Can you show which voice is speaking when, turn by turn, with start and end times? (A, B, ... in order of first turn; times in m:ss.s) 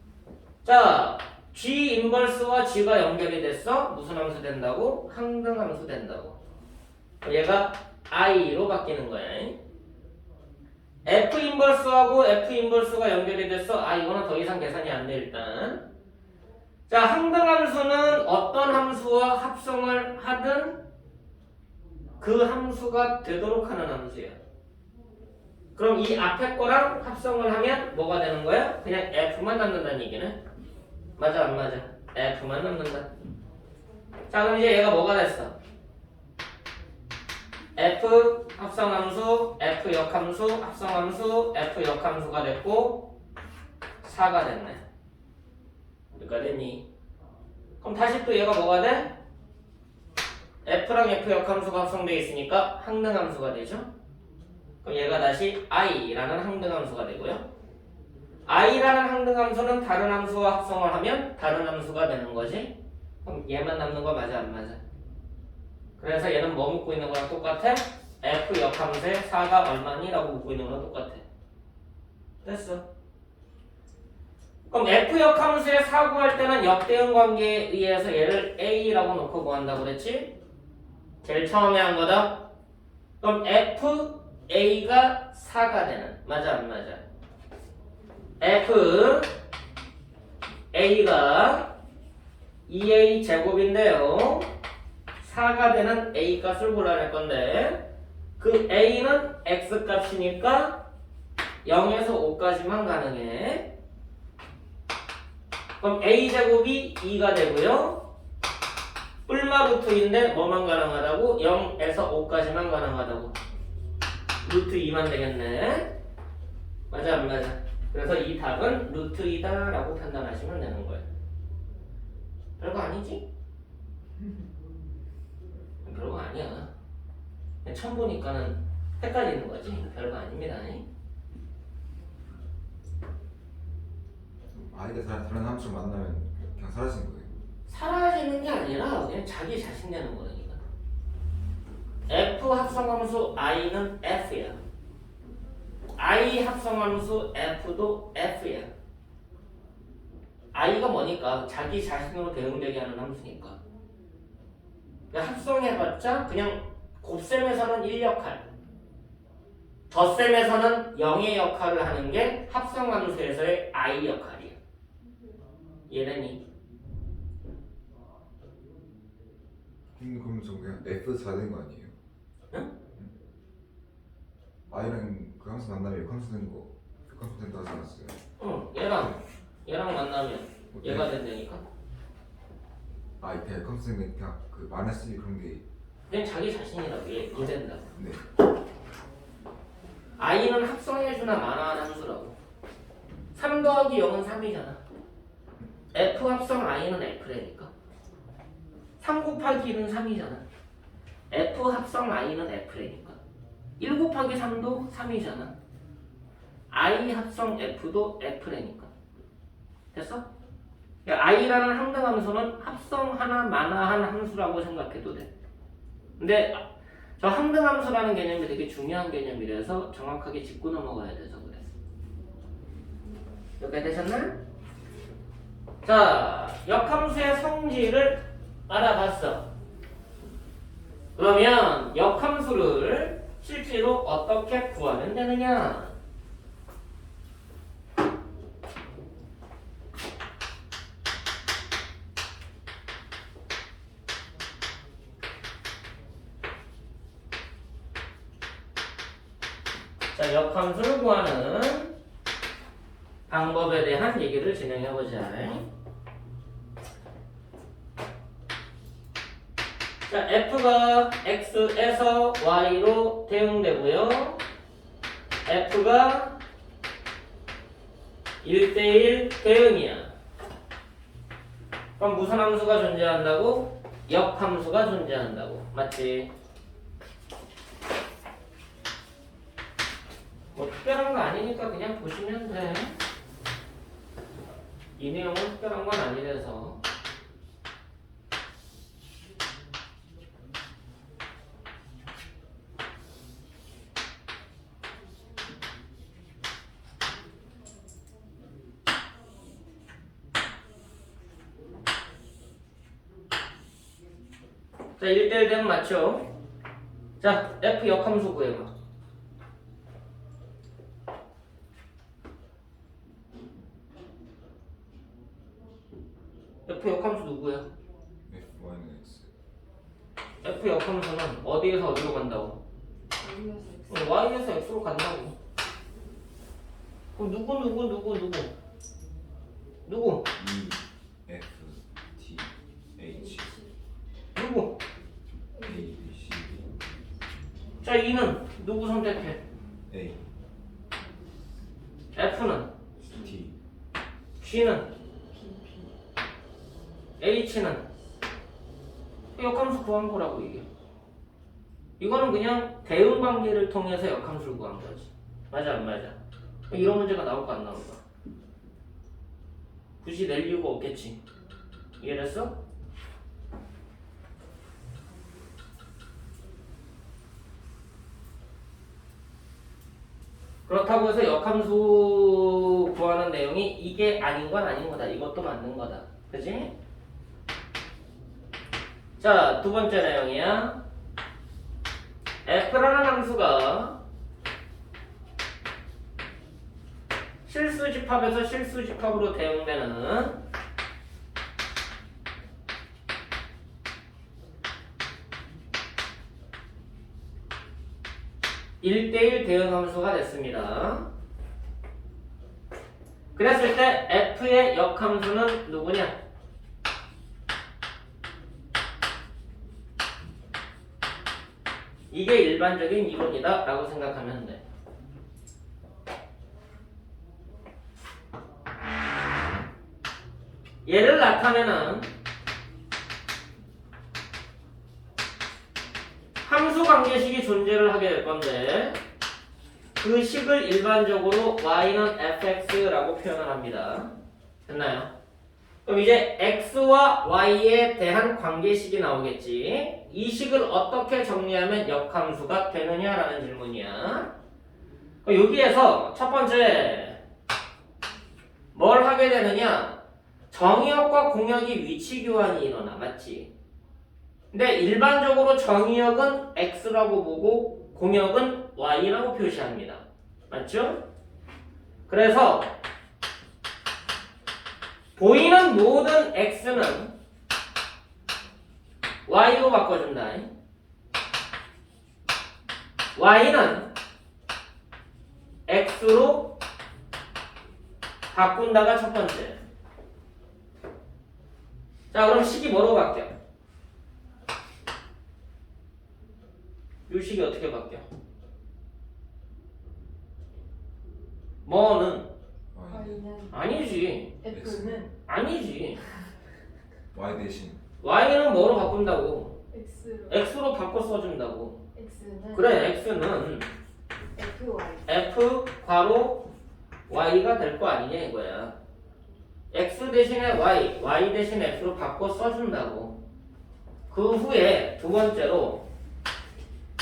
0:00.6-0:06.4 A
0:07.2-0:09.6 A
0:11.0-0:15.8 A
0:16.9-0:20.8 A
0:22.2-0:24.4 A
0:25.8-0:30.4 A
0:31.2-0:33.1 A
0:34.3-0:35.5 A
0:37.8-0:43.1 A
0:44.0-0:44.8 A
0:46.1-0:46.8 A
0:47.8-0:49.1 A
0:50.6-0:53.9 A
0:54.8-0:57.4 A
0:58.4-1:04.8 A
1:06.0-1:11.2 A
1:12.4-1:12.8 A
1:14.7-1:20.3 A
1:21.2-1:22.4 A
1:23.2-1:27.0 A
1:28.4-1:29.3 A
1:30.7-1:31.7 A
1:32.6-1:34.5 A
1:35.2-1:37.9 A
1:38.4-1:40.8 A
1:41.6-1:43.7 A
1:45.8-1:48.0 A
1:49.3-1:53.4 A
1:54.4-1:55.9 A
1:56.9-2:01.0 A
2:02.6-2:03.2 A
2:05.8-2:06.7 A
2:07.6-2:10.8 A
2:14.5-2:17.3 B
2:17.7-2:20.6 A
2:22.1-2:24.6 A
2:26.0-2:28.7 A
2:30.5-2:33.6 A
2:35.1-2:38.4 A
2:39.9-2:44.6 A
2:45.9-2:46.4 A
2:49.9-2:52.0 B
2:54.7-2:58.2 B
2:58.4-3:01.6 A
3:00.7-3:01.1 B
3:03.2-3:05.6 B
3:06.1-3:07.9 A
3:07.9-3:08.2 B
3:10.2-3:12.4 A
3:13.3-3:14.8 A
3:15.9-3:17.7 A
3:19.0-3:20.4 A
3:21.3-3:23.2 A
3:23.8-3:25.5 A
3:26.7-3:28.9 A
3:29.9-3:30.2 A
3:31.0-3:35.3 A
3:36.2-3:36.6 A
3:37.2-3:41.7 A
3:43.6-3:44.4 A
3:45.8-3:49.5 A
3:51.2-3:56.0 A
4:10.1-4:11.9 A
4:13.3-4:15.7 A
4:20.1-4:24.4 A
4:25.4-4:26.4 A
4:28.4-4:30.1 A
4:32.0-4:36.3 A
4:40.5-4:43.0 A
4:45.0-4:46.8 A
5:05.0-5:06.3 A
5:07.2-5:08.7 A
5:16.6-5:17.7 A
5:18.2-5:19.3 B
5:20.4-5:22.6 A
5:23.2-5:24.1 C
5:23.9-5:25.4 A
5:27.1-5:28.5 A
5:29.8-5:30.3 A
5:30.3-5:33.5 B
5:33.1-5:33.7 C
5:34.3-5:34.8 A
5:35.5-5:35.9 C
5:35.6-5:36.7 B
5:37.8-5:39.4 A
5:39.9-5:40.2 B
5:42.1-5:42.7 A
5:43.1-5:43.6 B
5:44.4-5:44.9 A
5:45.3-5:45.9 C
5:47.2-5:47.8 A
5:49.3-5:50.6 A
5:52.0-5:56.2 A
5:56.7-5:58.0 A
6:00.0-6:01.2 A
6:02.0-6:02.6 A
6:10.7-6:16.7 A
6:19.2-6:20.8 A
6:22.4-6:24.0 A
6:27.4-6:30.4 A
6:38.8-6:41.1 A
6:43.3-6:46.1 A
6:52.1-6:54.6 A
7:00.8-7:02.1 A
7:06.4-7:09.0 A
7:10.0-7:14.1 A
7:14.6-7:15.1 A
7:15.8-7:24.3 A
7:25.2-7:27.2 A
7:28.7-7:30.0 A
7:30.5-7:33.5 A
7:34.5-7:41.0 A
7:42.1-7:42.8 A
7:45.2-7:47.1 A
7:49.3-7:50.5 A
7:53.2-7:53.9 A
7:55.7-7:56.6 A
7:58.3-7:59.6 A
8:02.1-8:03.3 A
8:07.1-8:08.0 A
8:11.6-8:12.3 A
8:12.7-8:13.2 B
8:12.9-8:13.6 C
8:13.5-8:14.4 A
8:14.4-8:15.1 C
8:14.5-8:15.0 B
8:15.2-8:16.0 A
8:17.1-8:17.8 B
8:18.0-8:19.6 A
8:19.7-8:20.4 C
8:20.3-8:21.8 A
8:21.9-8:22.9 C
8:22.5-8:23.7 A
8:24.3-8:25.1 C
8:25.0-8:26.5 A
8:27.1-8:28.7 A
8:29.7-8:33.2 A
8:34.1-8:35.8 A